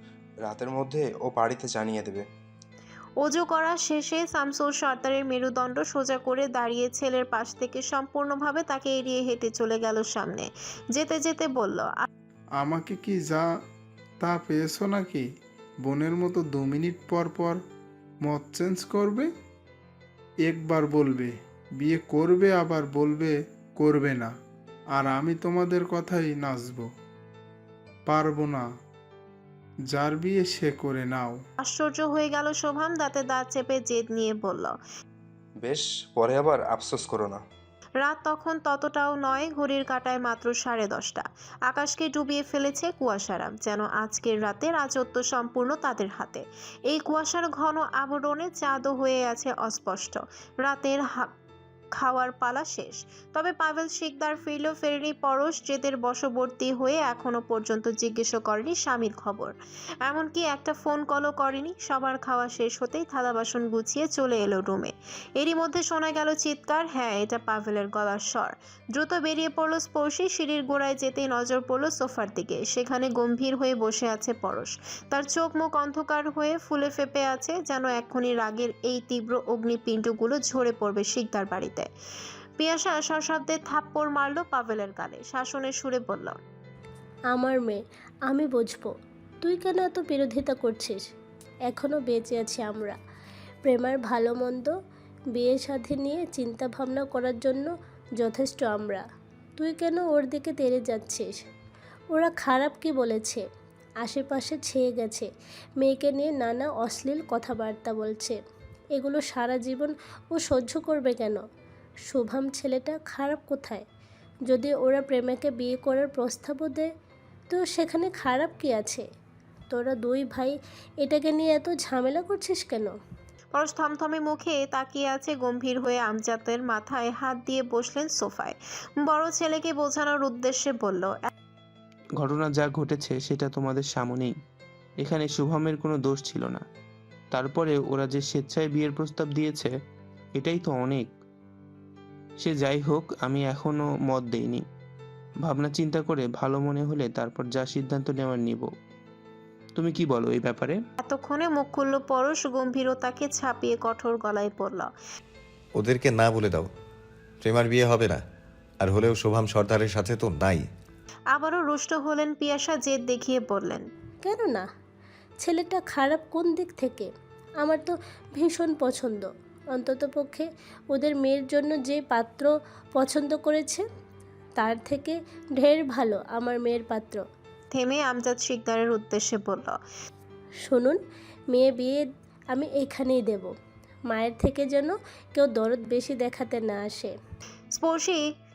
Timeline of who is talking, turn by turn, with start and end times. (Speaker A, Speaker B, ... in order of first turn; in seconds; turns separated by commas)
Speaker A: 0.4-2.2, Speaker B: 3.2-12.0, Speaker C: 12.6-13.4, Speaker C: 14.2-15.3, Speaker C: 15.8-17.6, Speaker C: 18.2-19.3, Speaker C: 20.4-24.3, Speaker C: 25.0-26.9, Speaker C: 28.1-28.7, Speaker C: 29.9-31.4, Speaker B: 31.6-34.8, Speaker A: 35.6-37.4, Speaker B: 38.0-51.3, Speaker B: 52.0-59.5, Speaker B: 60.0-81.9, Speaker B: 82.6-86.4, Speaker D: 87.3-88.9, Speaker D: 89.4-91.0, Speaker D: 91.7-93.0, Speaker D: 93.7-94.7, Speaker D: 95.3-99.0, Speaker D: 99.6-101.4, Speaker D: 102.1-103.4, Speaker D: 104.0-105.3, Speaker D: 105.8-108.4, Speaker D: 109.0-111.4, Speaker D: 112.1-113.8, Speaker D: 114.5-116.9, Speaker D: 117.5-119.0, Speaker D: 119.7-122.9, Speaker B: 123.5-131.3, Speaker E: 132.2-134.3, Speaker E: 135.0-136.7, Speaker E: 137.3-139.8, Speaker E: 140.3-141.2, Speaker E: 142.4-144.7, Speaker E: 145.4-148.7, Speaker E: 149.8-150.8, Speaker B: 151.0-154.9, Speaker F: 155.8-156.7, Speaker F: 157.4-158.2, Speaker F: 158.8-160.6, Speaker B: 161.3-163.8, Speaker D: 164.2-164.7, Speaker D: 165.4-167.1, Speaker D: 167.6-173.8, Speaker D: 174.6-177.2, Speaker B: 177.7-179.8, Speaker D: 180.7-181.0, Speaker D: 181.5-183.5, Speaker D: 184.1-187.1, Speaker B: 187.7-188.2